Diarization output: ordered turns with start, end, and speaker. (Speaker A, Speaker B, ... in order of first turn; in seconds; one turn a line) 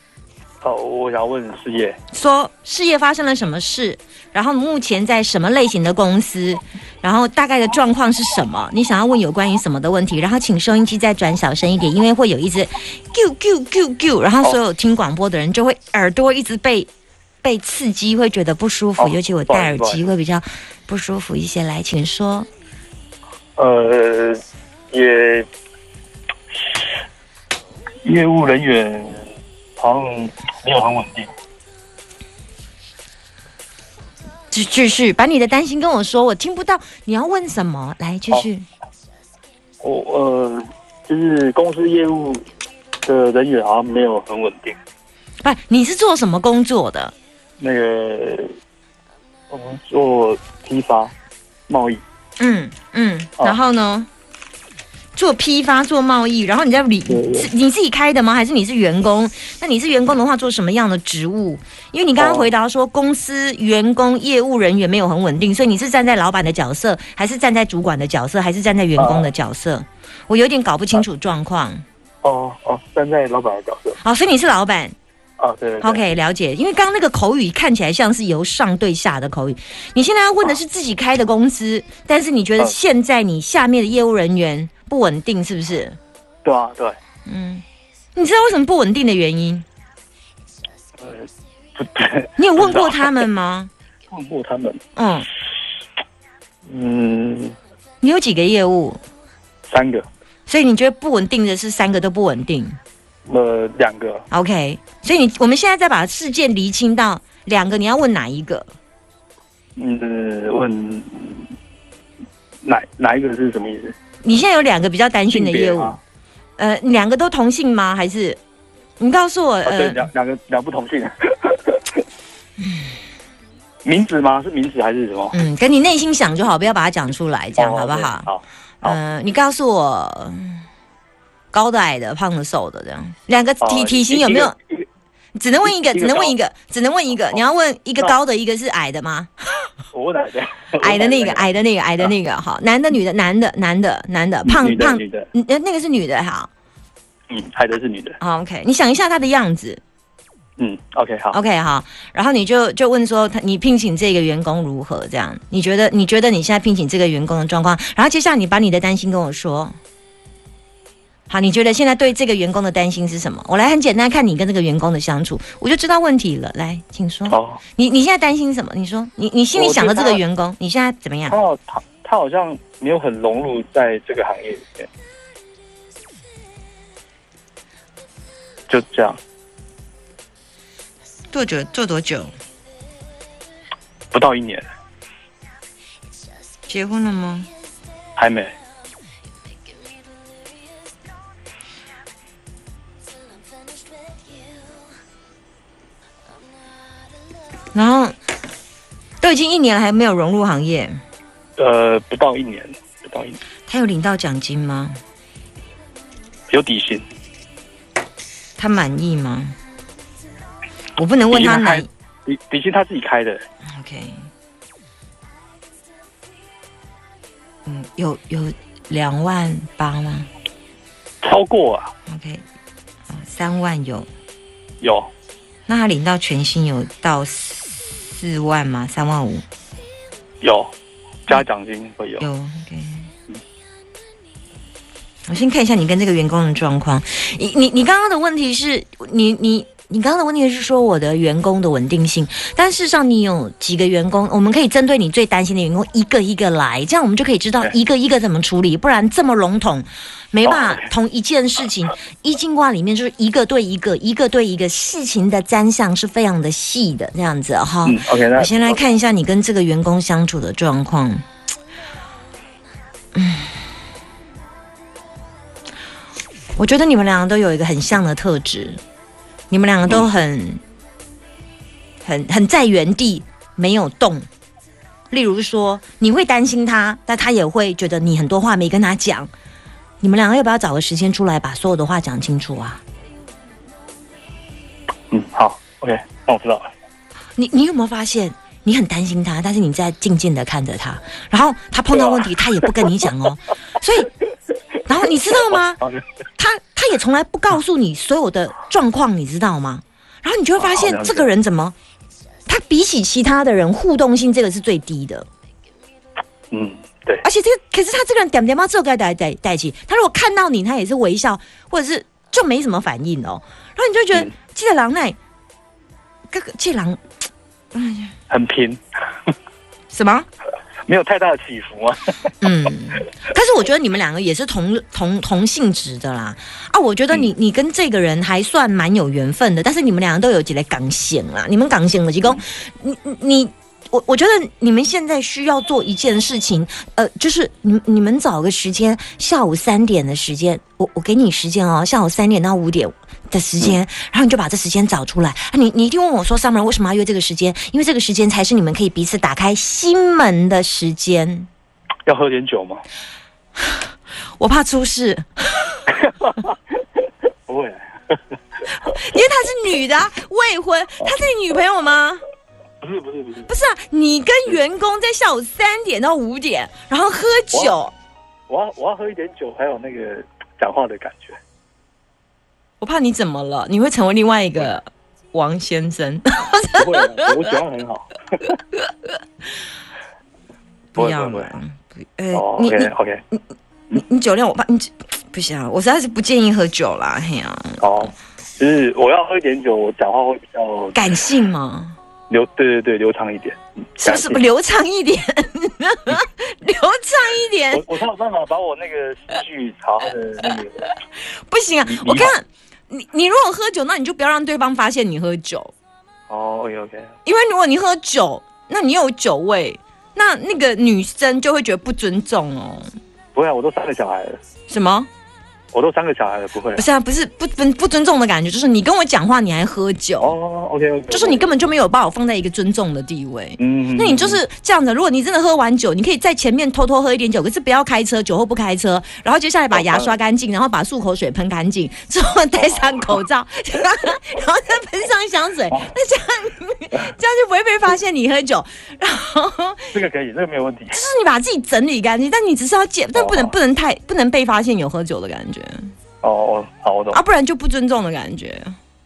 Speaker A: 0.6-2.0
Speaker B: 2.1-16.9
Speaker B: 17.4-22.5
Speaker A: 19.0-20.0
Speaker A: 23.6-25.5
Speaker A: 28.0-29.2
Speaker A: 29.8-31.3
Speaker B: 34.5-38.6
Speaker A: 39.8-42.4
Speaker A: 43.0-44.8
Speaker B: 45.4-47.1
Speaker A: 47.6-48.5
Speaker A: 49.5-51.1
Speaker A: 51.7-52.0
Speaker B: 52.4-54.1
Speaker B: 55.1-71.8
Speaker A: 57.1-57.5
Speaker A: 62.2-62.5
Speaker A: 69.0-69.3
Speaker A: 72.2-74.0
Speaker B: 74.0-74.9
Speaker A: 75.4-76.0
Speaker B: 75.8-86.0
Speaker A: 86.4-87.0
Speaker B: 87.3-87.6
Speaker B: 88.2-89.6
Speaker A: 91.0-93.2
Speaker B: 92.4-93.7
Speaker A: 94.1-94.8
Speaker B: 95.0-95.3
Speaker A: 96.7-97.5
Speaker B: 98.0-99.0
Speaker A: 99.7-100.0
Speaker B: 100.5-102.8
Speaker A: 103.2-104.2
Speaker B: 104.3-108.7
Speaker A: 109.8-111.5
Speaker A: 112.6-113.9
Speaker B: 114.2-116.0
Speaker A: 115.3-116.0
Speaker B: 116.6-118.4
Speaker B: 119.0-120.1
Speaker A: 119.7-122.0
Speaker A: 123.8-125.3
Speaker B: 125.3-128.3
Speaker A: 127.6-129.0
Speaker B: 128.8-130.6
Speaker B: 131.5-134.5
Speaker A: 133.6-134.8
Speaker B: 135.3-139.7
Speaker A: 135.6-136.3
Speaker A: 139.9-141.5
Speaker B: 140.8-146.5
Speaker A: 144.4-145.3
Speaker A: 147.3-148.2
Speaker B: 148.2-149.8
Speaker A: 150.6-151.3
Speaker B: 151.3-159.7
Speaker B: 161.3-171.3
Speaker A: 167.3-167.6
Speaker A: 169.5-170.2
Speaker A: 171.3-174.9
Speaker A: 178.7-179.2
Speaker B: 181.3-182.3
Speaker A: 184.1-184.7
Speaker B: 186.7-187.5
Speaker A: 188.2-188.5
Speaker B: 197.7-198.1
Speaker B: 199.2-201.0
Speaker A: 201.6-203.4
Speaker B: 203.7-205.0
Speaker A: 206.5-207.0
Speaker B: 208.6-209.5
Speaker B: 211.0-211.9
Speaker A: 211.3-213.4
Speaker B: 213.7-214.3
Speaker B: 217.7-220.3
Speaker A: 221.2-221.9
Speaker B: 222.1-222.4
Speaker B: 223.1-224.1
Speaker A: 224.8-225.1
Speaker B: 225.7-229.4
Speaker A: 230.4-230.7
Speaker A: 231.2-232.2
Speaker B: 232.2-233.1
Speaker B: 235.3-261.2
Speaker A: 250.4-250.9
Speaker A: 257.8-258.8
Speaker B: 263.1-263.5
Speaker B: 266.6-268.8
Speaker B: 269.5-270.6
Speaker B: 272.0-274.3
Speaker B: 275.1-279.3
Speaker B: 280.0-282.8
Speaker A: 285.1-286.7
Speaker B: 287.4-294.1
Speaker A: 291.9-292.3
Speaker B: 294.8-295.8
Speaker A: 295.3-296.0
Speaker B: 296.4-301.7
Speaker A: 300.6-301.3
Speaker B: 302.5-305.2
Speaker A: 306.5-307.2
Speaker B: 307.2-315.2
Speaker B: 316.3-317.0
Speaker B: 317.7-318.1
Speaker A: 318.3-319.3
Speaker B: 319.9-320.3
Speaker A: 320.9-322.3
Speaker B: 322.4-351.5
Speaker A: 352.1-352.8
Speaker B: 354.4-355.8
Speaker A: 355.9-356.5
Speaker A: 357.5-358.2
Speaker B: 358.7-362.2
Speaker A: 362.8-363.5
Speaker B: 363.5-367.9
Speaker A: 368.5-371.4
Speaker B: 372.8-377.3
Speaker A: 376.7-378.6
Speaker B: 380.9-383.4
Speaker A: 380.9-381.5
Speaker A: 382.3-383.2
Speaker B: 383.9-388.1
Speaker A: 387.8-391.0
Speaker B: 390.9-391.9
Speaker A: 392.3-394.4
Speaker B: 394.0-397.9
Speaker A: 397.7-400.8
Speaker B: 401.5-405.7
Speaker A: 401.8-402.3
Speaker A: 406.3-407.1
Speaker B: 407.2-412.9
Speaker A: 413.3-414.4
Speaker B: 414.7-415.1
Speaker A: 415.7-416.8
Speaker B: 416.8-420.4
Speaker A: 420.2-421.5
Speaker B: 421.1-439.9
Speaker A: 423.6-424.4
Speaker A: 429.7-430.1
Speaker A: 432.6-433.2
Speaker A: 439.9-441.0
Speaker B: 440.9-445.9
Speaker A: 443.1-443.6
Speaker A: 446.2-447.2
Speaker B: 447.1-448.8